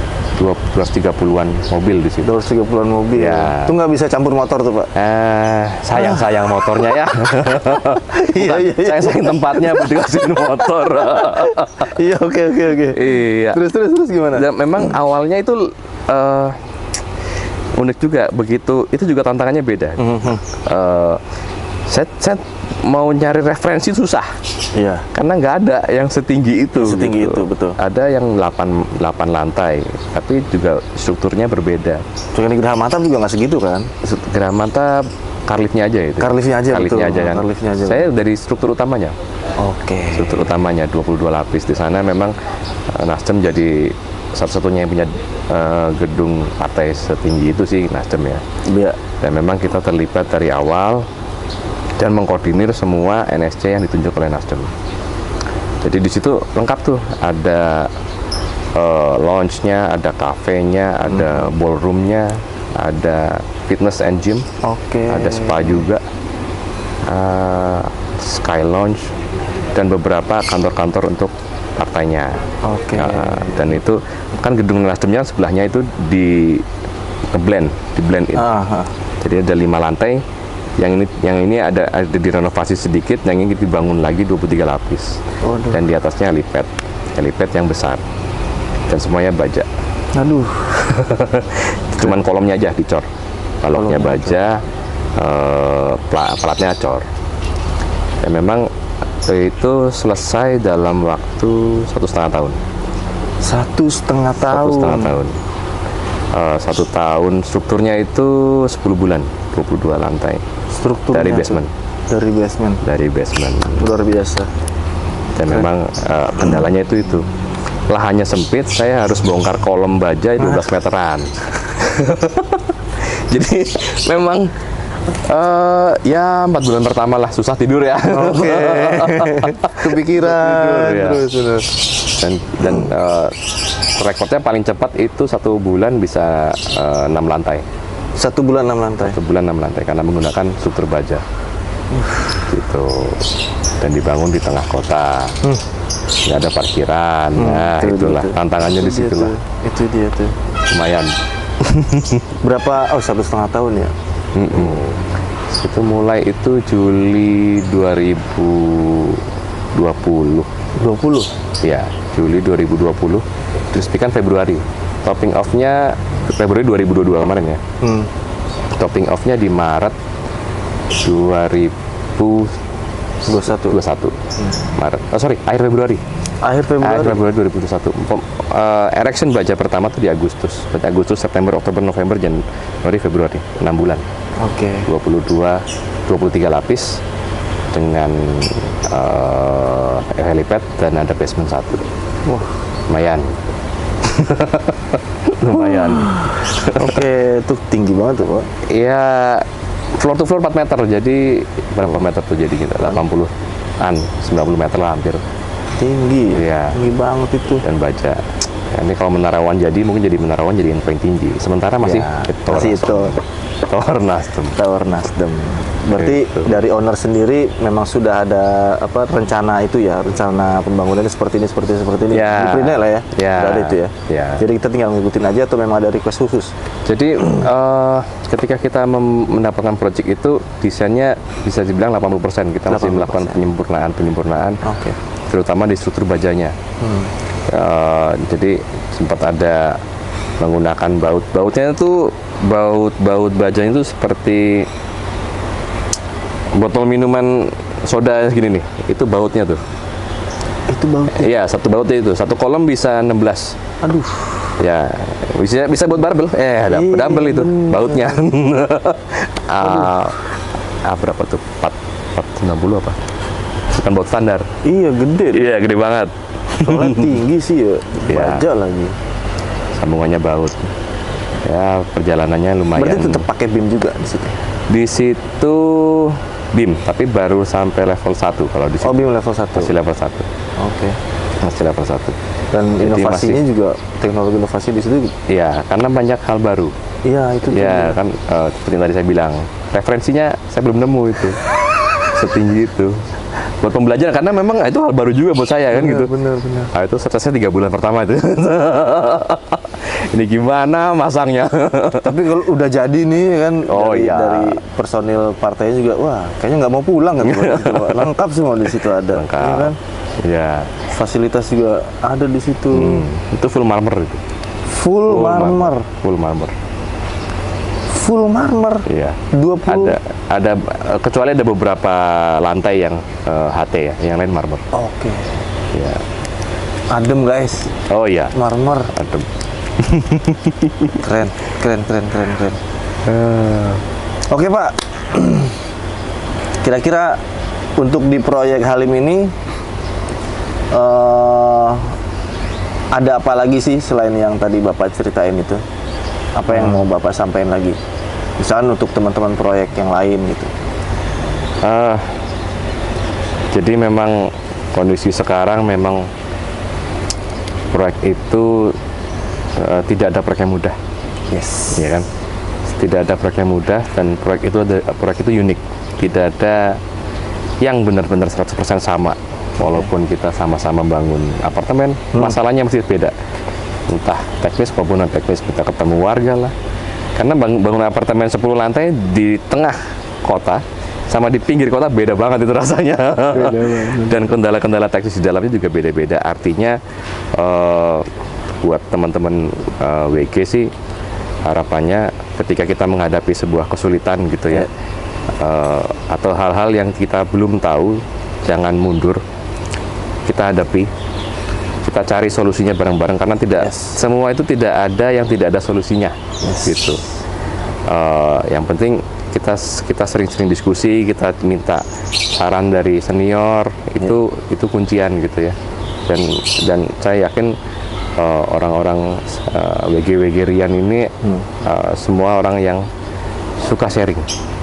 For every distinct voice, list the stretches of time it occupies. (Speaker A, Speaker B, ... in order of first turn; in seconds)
Speaker A: 0.4-2.3, 3.1-3.8, 4.9-11.9, 12.9-13.7, 14.3-16.6, 17.8-21.2, 21.9-24.3, 25.1-32.0, 34.0-39.1, 40.1-42.3, 42.9-48.4, 49.2-51.1, 52.0-54.7, 55.8-57.9, 58.7-64.5, 65.1-66.0, 67.0-69.1, 69.7-76.7, 77.3-78.5, 79.2-80.2, 80.8-88.0, 88.9-89.7, 90.9-93.0, 93.6-94.6, 95.2-97.0, 98.2-98.7, 99.2-102.6, 104.4-105.4, 106.3-110.4, 111.1-111.7, 112.8-113.9, 115.3-117.3, 117.9-124.5, 125.1-131.3, 132.0-133.4, 134.0-137.6, 139.0-141.2, 142.4-145.4, 146.2-149.3, 150.7-152.3, 154.3-160.5, 161.6-167.6, 168.7-169.9, 170.9-172.6, 173.2-176.0, 176.8-184.0, 184.9-187.0, 187.7-191.9, 192.9-193.4, 194.0-197.0, 198.6-205.2, 206.3-206.8, 207.6-214.6, 216.0-216.6, 222.1-224.4, 226.8-234.6, 235.3-236.6, 237.5-239.8, 240.4-244.7, 246.5-249.6, 251.1-253.6, 254.6-260.3, 260.8-263.0, 263.7-264.5, 265.3-267.2, 268.1-268.5, 269.8-270.7, 271.4-273.2, 274.7-280.3, 281.4-282.2, 282.8-283.4, 285.3-286.7, 287.5-291.4, 292.0-293.0, 293.6-302.2, 303.6-304.6, 307.2-308.1, 308.8-310.7, 312.7-314.2, 315.1-316.6, 318.9-324.6, 325.7-326.0, 327.9-328.4, 328.9-331.0, 333.0-333.8, 346.5-346.8, 351.6-352.1, 353.5-356.1, 357.7-358.8, 359.6-360.8, 361.7-362.1, 362.7-366.8, 367.6-373.1, 373.9-376.5, 377.1-386.8, 387.3-388.1, 388.6-390.7, 391.4-394.7, 395.4-399.2, 400.2-400.9, 401.8-407.0, 407.9-417.6, 418.2-422.9, 423.6-424.3
Speaker B: 2.2-4.9, 8.1-14.5, 20.0-20.4, 24.7-25.1, 26.8-27.8, 32.3-33.9, 36.2-38.1, 39.6-40.5, 48.6-49.0, 61.1-61.4, 64.6-65.8, 72.6-73.8, 78.3-78.9, 85.4-85.8, 90.1-91.1, 93.7-94.3, 103.4-105.2, 110.7-112.8, 113.8-114.5, 128.1-131.7, 138.2-139.2, 141.9-142.3, 147.3-150.3, 152.4-153.9, 160.8-161.3, 167.8-168.1, 173.2-173.8, 176.4-177.2, 184.4-184.9, 195.5-198.5, 205.8-207.6, 211.8-213.2, 214.6-226.5, 232.7-233.4, 234.6-235.0, 236.8-237.1, 250.7-251.3, 253.8-254.5, 256.7-258.2, 259.6-259.9, 264.6-265.5, 266.6-268.9, 272.8-274.4, 278.8-279.8, 280.6-281.0, 282.5-285.1, 287.1-288.0, 295.7-296.7, 302.0-309.8, 310.9-313.1, 314.7-315.9, 317.9-320.0, 324.7-325.4, 326.9-327.7, 328.3-328.9, 330.9-332.6, 334.3-335.6, 336.6-337.2, 337.8-339.3, 340.7-341.9, 342.9-345.6, 346.4-347.8, 348.4-350.5, 361.3-361.9, 383.3-384.2, 403.6-404.0, 406.4-406.8